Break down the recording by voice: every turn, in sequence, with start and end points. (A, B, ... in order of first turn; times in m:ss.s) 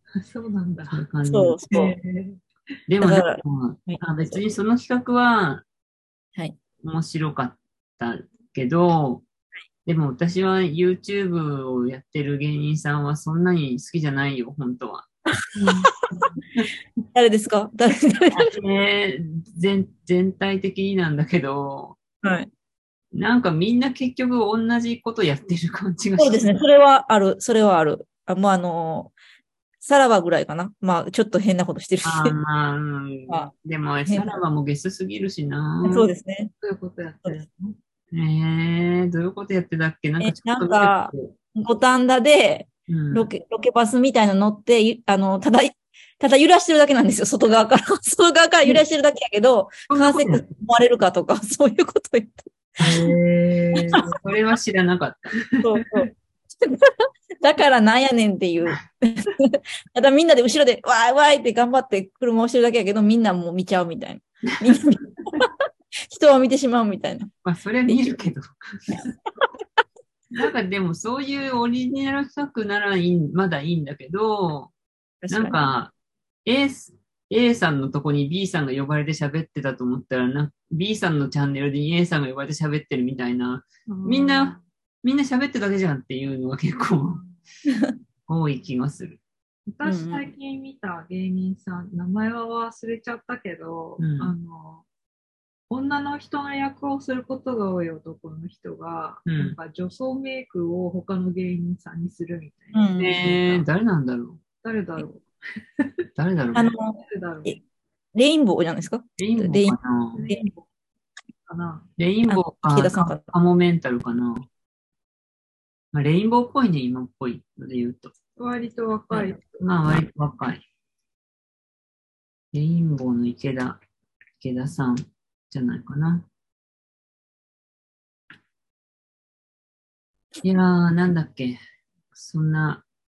0:00.2-0:01.0 A
0:00.9-0:01.6 B
0:01.3-0:02.0 C
0:01.7-0:02.4 A
0:02.9-0:05.6 B
0:03.0-0:04.4 C
0:06.8-0:09.2 B
0:09.8-0:15.1 B
0:15.6-0:15.9 A
0:17.1-0:18.5 C
0:18.3-0:22.0 B
0:22.2-0:22.5 C
0:23.1-0:26.6 B
0:26.2-0:29.1 C
0:29.8-0:32.3 C
0:32.0-0:36.1 B
0:34.1-0:34.4 C
0:35.8-0:36.5 C
0:36.6-0:37.8 A
0:38.1-0:41.3 B
0:40.2-0:52.5 C
0:42.9-0:43.3 B
0:49.9-0:50.5 B
0:52.8-0:53.2 B
0:52.8-0:54.0 A
0:53.9-0:55.4 B
0:55.4-0:56.1 A
0:55.6-1:05.5 C
1:06.1-1:07.3 C
1:07.4-1:09.0 B
1:07.9-1:08.2 C
1:10.3-1:14.7 B
1:15.2-1:15.6 C
1:15.3-1:15.9 B
1:16.4-1:27.2 B
1:23.9-1:24.6 A
1:27.0-1:27.4 A
1:28.3-1:29.2 B
1:29.7-1:34.8 A
1:29.8-1:30.2 C
1:34.0-1:34.3 B
1:35.7-1:43.6 A
1:39.3-1:39.6 B
1:42.7-1:43.2 C
1:43.0-1:44.4 B
1:44.6-1:45.2 A
1:45.8-1:46.0 A
1:46.2-1:46.7 B
1:46.6-1:47.6 C
1:47.0-1:47.6 A
1:48.1-1:49.8 C
1:49.2-1:50.2 B
1:50.1-1:50.7 A
1:51.5-1:51.9 A
1:52.0-1:54.5 B
1:52.3-1:53.3 C
1:55.9-1:58.1 B
1:58.4-1:59.6 A
1:59.5-2:00.6 B
2:02.5-2:03.8 B
2:04.4-2:06.3 B
2:10.4-2:11.6 B
2:12.1-2:12.8 B